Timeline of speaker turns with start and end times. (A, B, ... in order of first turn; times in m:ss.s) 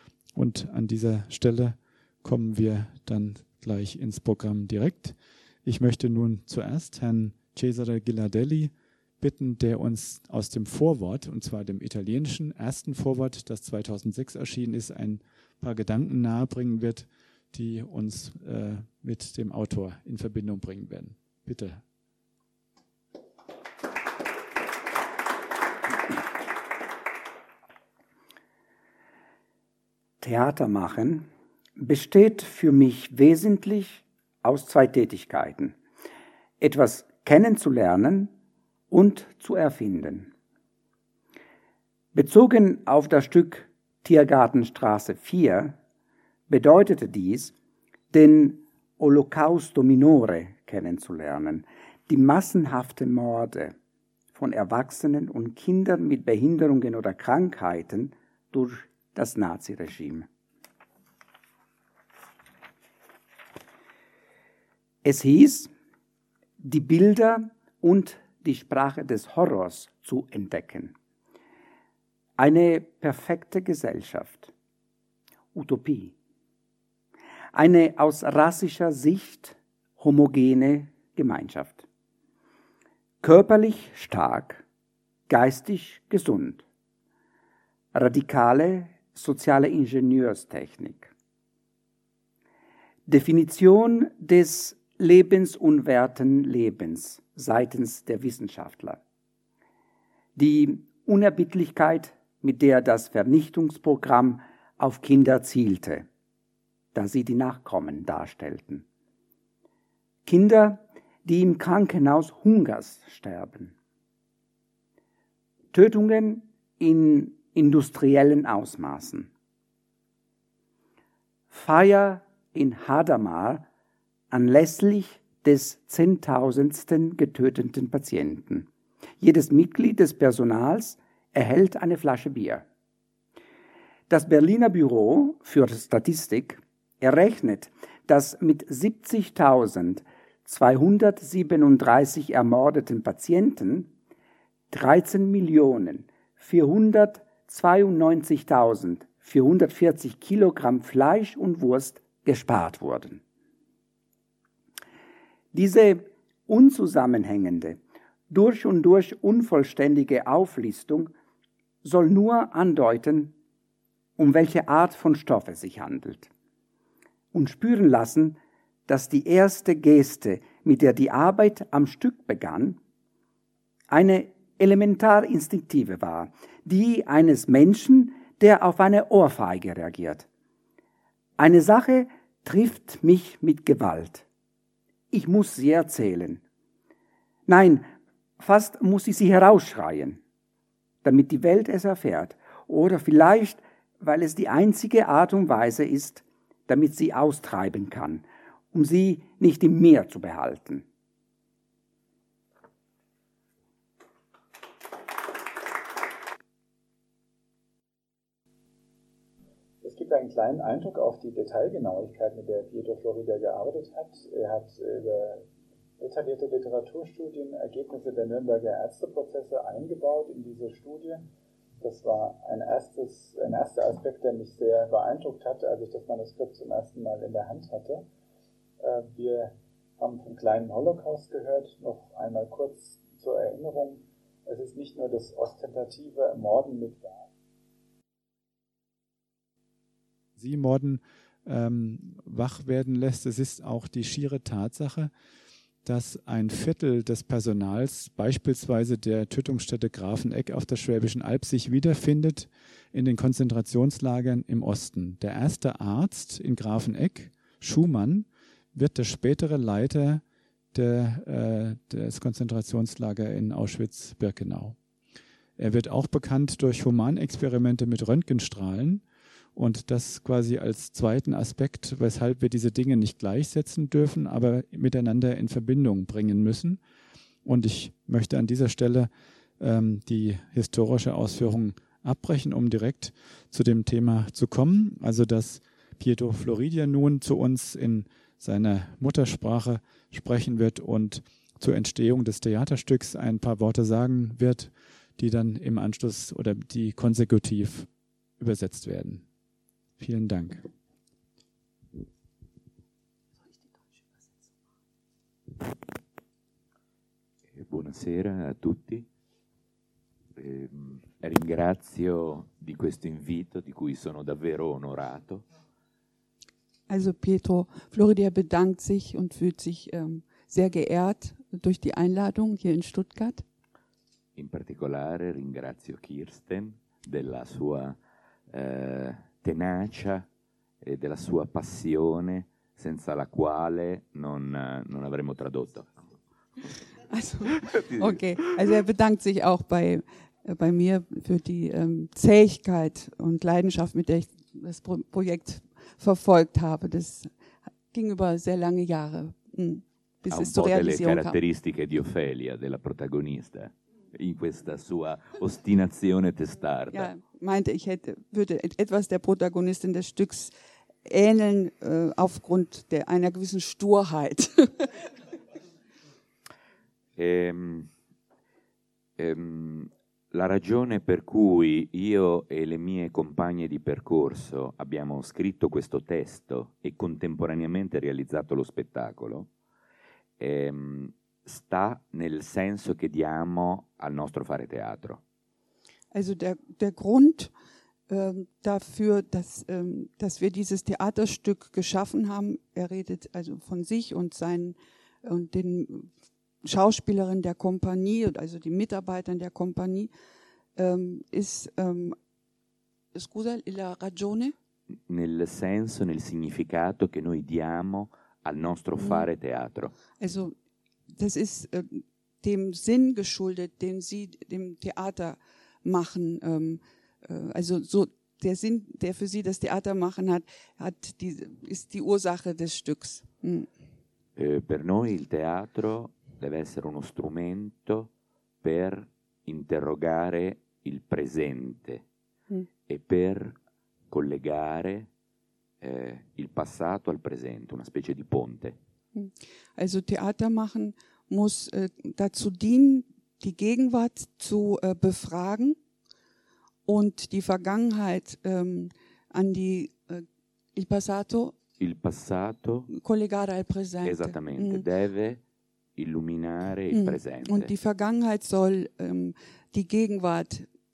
0:00.4-0:21.8 A
0:30.2-0:35.8 B
0:36.6-0:38.3 B
0:38.9-0:40.3 B
0:42.1-0:45.8 B
0:46.5-0:47.5 B
0:48.1-0:53.8 B
0:54.3-1:00.3 B
1:05.0-1:05.7 B
1:06.6-1:10.9 B
1:12.4-1:14.5 B
1:15.5-1:16.1 B
1:17.5-1:21.8 B
1:23.2-1:24.6 B
1:25.3-1:26.6 B
1:27.9-1:31.1 B
1:33.1-1:39.0 B
1:40.4-1:46.1 B
1:46.9-1:48.8 B
1:50.2-1:53.7 B
1:55.7-1:59.3 B
2:01.5-2:03.6 B
2:04.3-2:08.7 B
2:09.2-2:12.6 B
2:14.1-2:23.9 B
2:24.7-2:33.2 B
2:35.5-2:41.1 B
2:41.8-2:43.3 B
2:44.2-2:46.3 B
2:47.3-2:52.8 B
2:53.9-3:00.3 B
3:01.4-3:04.2 B
3:05.1-3:06.4 B
3:07.5-3:10.2 B
3:11.0-3:20.8 B
3:29.8-3:35.5 A
3:36.0-3:41.3 A
3:41.8-3:48.1 A
3:48.8-3:57.3 A
4:00.4-4:05.1 A
4:05.8-4:20.2 A
4:20.7-4:24.8 A
4:25.6-4:29.0 A
4:29.6-4:36.8 A
4:37.4-4:59.2 A
5:00.0-5:00.7 A
5:07.5-5:09.1 C
5:10.4-5:15.5 C
5:16.9-5:23.4 D
5:24.4-5:28.0 C
5:28.5-5:30.2 C
5:30.8-5:35.9 C
5:37.1-5:47.3 D
5:47.9-5:51.4 D
5:50.3-5:57.1 C
5:56.9-6:00.5 D
6:01.0-6:05.1 D
6:07.2-6:07.9 C
6:09.2-6:19.5 C
6:20.4-6:25.2 C
6:26.1-6:27.5 D
6:28.1-6:36.1 D
6:36.6-6:40.1 D
6:40.8-6:42.2 D
6:43.1-6:44.6 D
6:45.1-6:49.9 C
6:50.2-6:50.6 D
6:51.1-7:03.7 D
7:04.4-7:08.1 C
7:08.6-7:12.0 C
7:12.9-7:13.6 C
7:14.1-7:15.1 C
7:15.8-7:18.8 C
7:19.2-7:25.8 D
7:26.9-7:31.6 D
7:31.8-7:32.9 C
7:32.9-7:34.8 D
7:34.0-7:35.4 C
7:36.0-7:37.7 C
7:36.9-7:40.7 D